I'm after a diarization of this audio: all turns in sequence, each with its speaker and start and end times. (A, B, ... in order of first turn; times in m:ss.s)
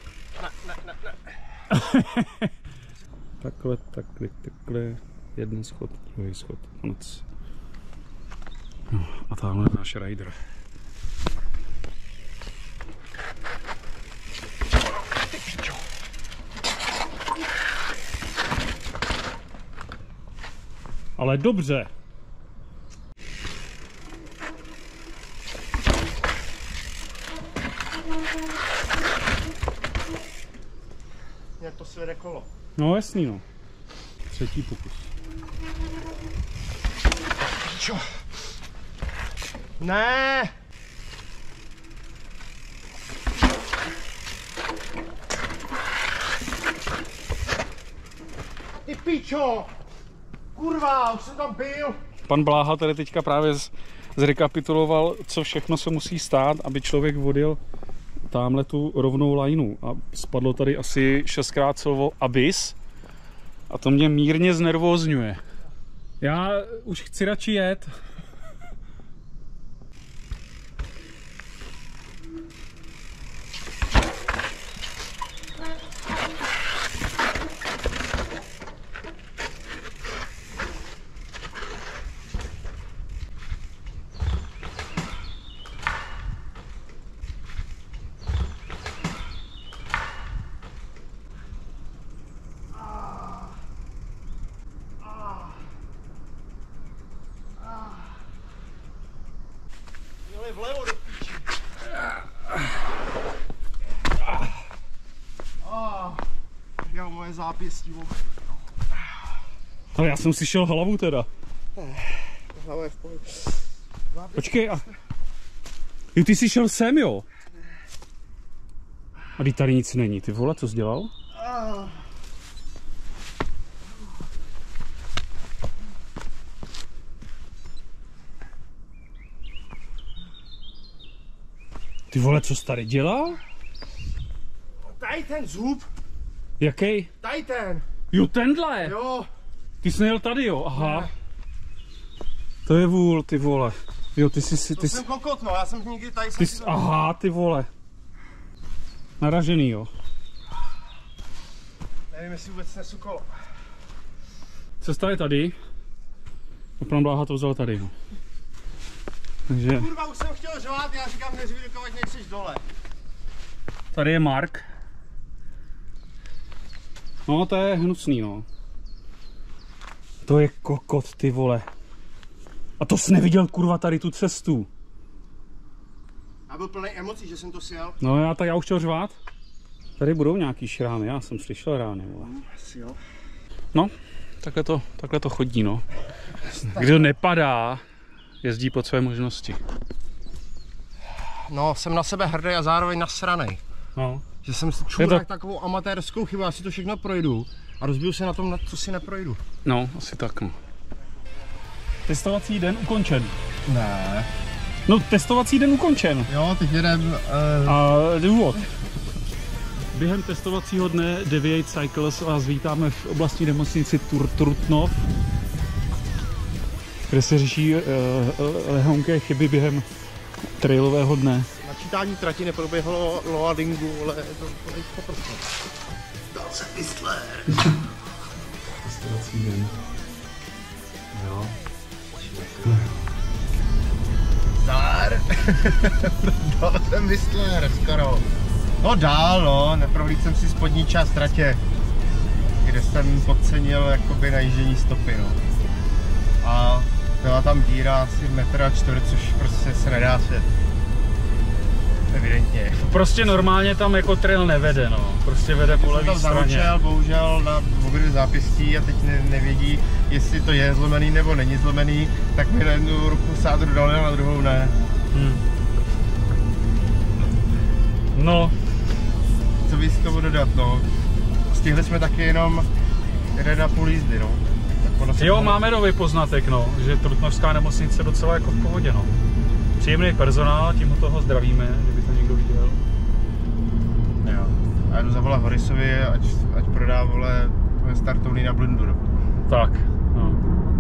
0:00.4-0:01.2 A
0:01.7-0:02.5 B
0:03.4-0:07.2 B
0:08.9-0:10.4 B
0:21.2-0:21.9 B
0:31.6-0:32.5 A
0:32.8-0:33.4 B
0:34.3-0:35.1 B
0:37.6-0:38.0 A
0:39.8-0:40.5 A
0:48.8-0:49.7 A
0:50.5-0:52.0 A
0:52.3-0:57.6 B
0:58.3-1:02.8 B
1:03.7-1:05.4 B
1:06.2-1:07.9 B
1:35.1-1:35.4 A
1:37.7-1:38.0 A
1:40.2-1:41.5 A
1:45.6-1:46.2 A
1:46.8-1:48.5 A
1:49.9-1:51.3 B
1:51.8-1:53.5 A
1:54.1-1:54.9 A
1:54.4-1:54.8 B
1:56.1-1:57.2 B
1:59.4-2:01.1 B
2:01.4-2:01.9 A
2:12.1-2:13.4 B
2:14.8-2:15.9 A
2:16.6-2:17.1 B
2:17.2-2:17.8 A
2:18.1-2:19.0 B
2:18.8-2:19.3 A
2:19.8-2:21.1 B
2:20.7-2:21.1 A
2:22.6-2:25.0 B
2:24.7-2:26.8 A
2:26.4-2:27.7 B
2:29.2-2:29.9 B
2:32.1-2:33.3 A
2:34.8-2:35.6 B
2:36.8-2:37.9 B
2:39.5-2:39.8 B
2:39.7-2:42.6 A
2:43.9-2:44.6 B
2:47.3-2:48.4 B
2:50.2-2:51.7 B
2:52.8-2:54.7 B
2:56.5-2:58.0 A
2:58.0-2:59.1 B
3:00.0-3:02.3 B
3:02.2-3:03.0 A
3:03.7-3:07.8 B
3:06.7-3:07.1 A
3:08.4-3:09.6 B
3:11.5-3:13.6 A
3:14.0-3:14.2 B
3:14.4-3:19.4 A
3:15.0-3:15.2 B
3:19.6-3:20.5 B
3:22.1-3:23.3 B
3:23.6-3:24.3 A
3:24.8-3:26.3 B
3:26.3-3:27.8 A
3:27.6-3:28.7 B
3:29.9-3:35.1 B
3:37.1-3:39.8 B
3:40.6-3:41.5 B
3:41.6-3:45.5 A
3:46.3-3:47.5 A
3:48.7-3:49.7 B
3:51.1-3:51.5 B
3:52.3-3:52.8 B
3:54.6-3:58.2 A
3:58.8-4:01.6 A
4:02.6-4:05.4 A
4:06.4-4:10.5 A
4:12.1-4:13.0 A
4:12.8-4:16.7 B
4:15.6-4:24.8 A
4:25.1-4:25.4 B
4:28.1-4:28.5 B
4:29.6-4:30.9 A
4:31.5-4:32.7 A
4:33.3-4:35.6 A
4:35.2-4:39.1 B
4:39.8-4:42.8 B
4:44.2-4:49.0 A
4:49.5-4:50.4 B